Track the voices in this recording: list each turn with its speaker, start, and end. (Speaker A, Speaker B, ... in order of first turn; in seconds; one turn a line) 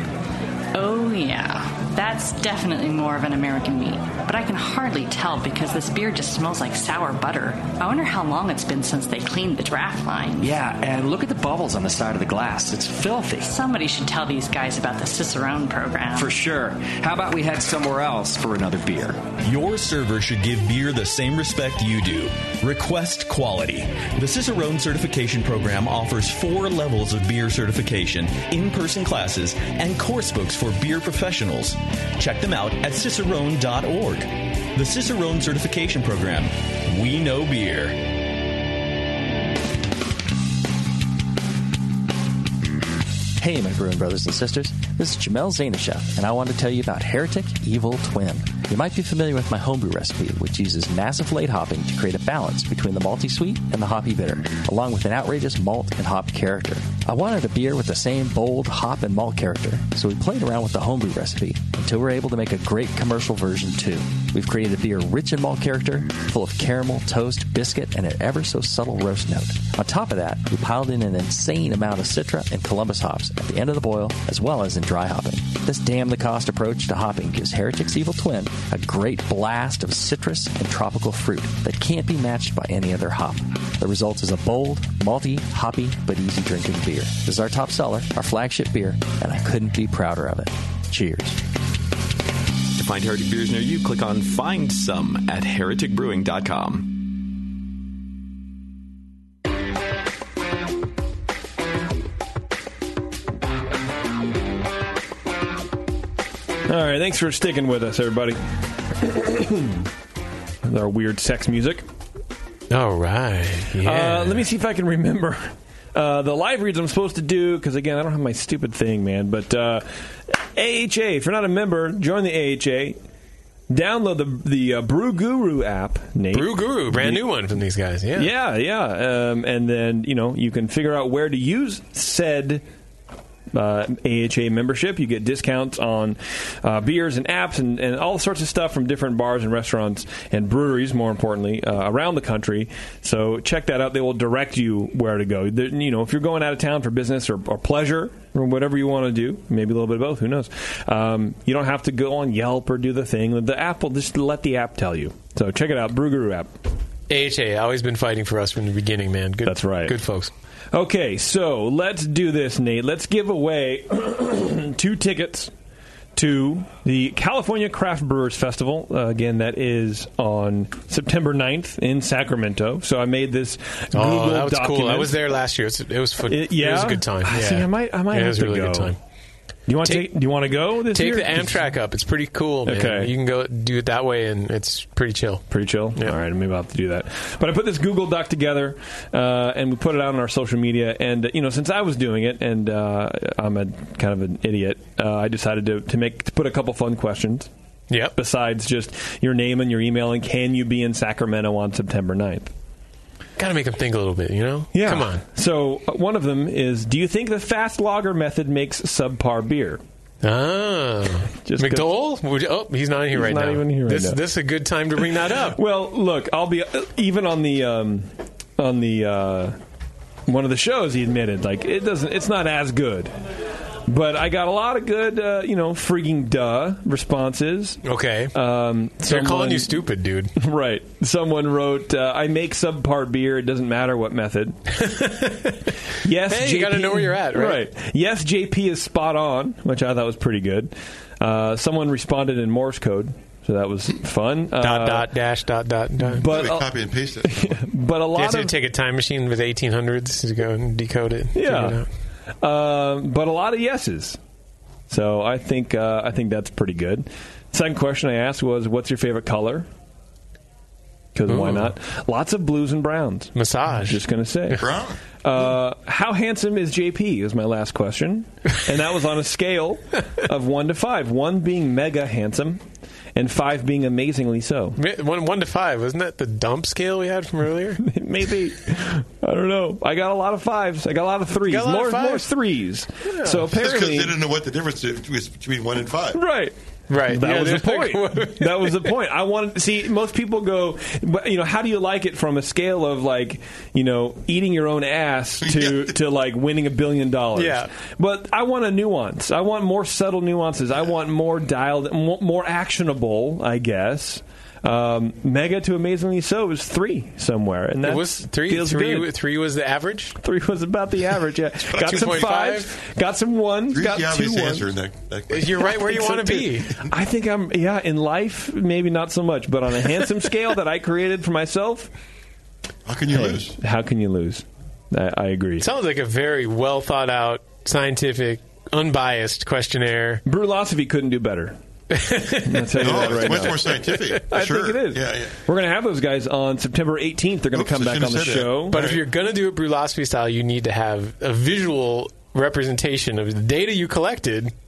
Speaker A: 0.7-10.5
Speaker B: 10.4-13.6
Speaker A: 13.4-16.3
Speaker B: 16.1-19.3
Speaker C: 19.4-38.0
Speaker D: 43.4-91.4
Speaker C: 92.8-96.9
Speaker E: 106.7-109.9
Speaker E: 110.6-111.8
Speaker F: 112.7-114.5
Speaker E: 113.8-123.0
Speaker E: 123.7-127.2
Speaker F: 126.3-128.3
Speaker E: 128.2-132.6
Speaker E: 133.5-156.5
Speaker F: 157.1-160.3
Speaker E: 159.5-159.9
Speaker E: 160.7-165.5
Speaker E: 166.2-175.2
Speaker F: 173.9-179.0
Speaker E: 176.3-178.9
Speaker E: 179.7-181.7
Speaker F: 179.8-180.1
Speaker F: 180.9-186.2
Speaker E: 182.7-183.1
Speaker E: 185.5-197.5
Speaker E: 198.2-202.5
Speaker F: 203.4-205.2
Speaker E: 204.7-209.8
Speaker F: 210.2-215.6
Speaker E: 211.4-211.9
Speaker E: 213.1-214.2
Speaker E: 215.0-219.6
Speaker E: 220.3-223.1
Speaker E: 223.9-227.8
Speaker F: 227.8-228.3
Speaker E: 228.3-229.7
Speaker F: 229.0-230.3
Speaker E: 230.4-234.6
Speaker F: 234.8-235.6
Speaker E: 236.0-245.1
Speaker F: 236.3-237.6
Speaker F: 244.6-246.3
Speaker E: 246.0-246.7
Speaker G: 246.2-247.6
Speaker E: 247.2-248.5
Speaker F: 248.2-251.9
Speaker E: 251.3-251.8
Speaker E: 252.4-254.2
Speaker E: 254.9-259.7
Speaker E: 261.1-264.6
Speaker F: 261.3-261.7
Speaker F: 263.4-264.6
Speaker G: 264.6-265.0
Speaker E: 265.2-272.6
Speaker E: 273.1-274.8
Speaker F: 274.8-277.8
Speaker E: 277.8-284.1
Speaker F: 281.4-282.3
Speaker F: 283.1-283.5
Speaker G: 283.5-286.2
Speaker E: 286.1-286.5
Speaker F: 286.9-288.8
Speaker E: 287.1-309.1
Speaker G: 295.4-296.0
Speaker F: 297.4-297.7
Speaker F: 307.8-310.1
Speaker E: 310.2-314.7
Speaker F: 311.8-312.7
Speaker G: 311.8-312.2
Speaker G: 313.7-315.9
Speaker F: 315.3-316.8
Speaker E: 316.0-321.9
Speaker G: 322.9-323.6
Speaker E: 323.1-325.6
Speaker F: 325.6-330.2
Speaker E: 330.2-331.6
Speaker F: 331.9-334.2
Speaker E: 332.4-333.6
Speaker G: 332.8-335.3
Speaker E: 334.3-338.8
Speaker G: 337.5-339.0
Speaker F: 338.7-344.5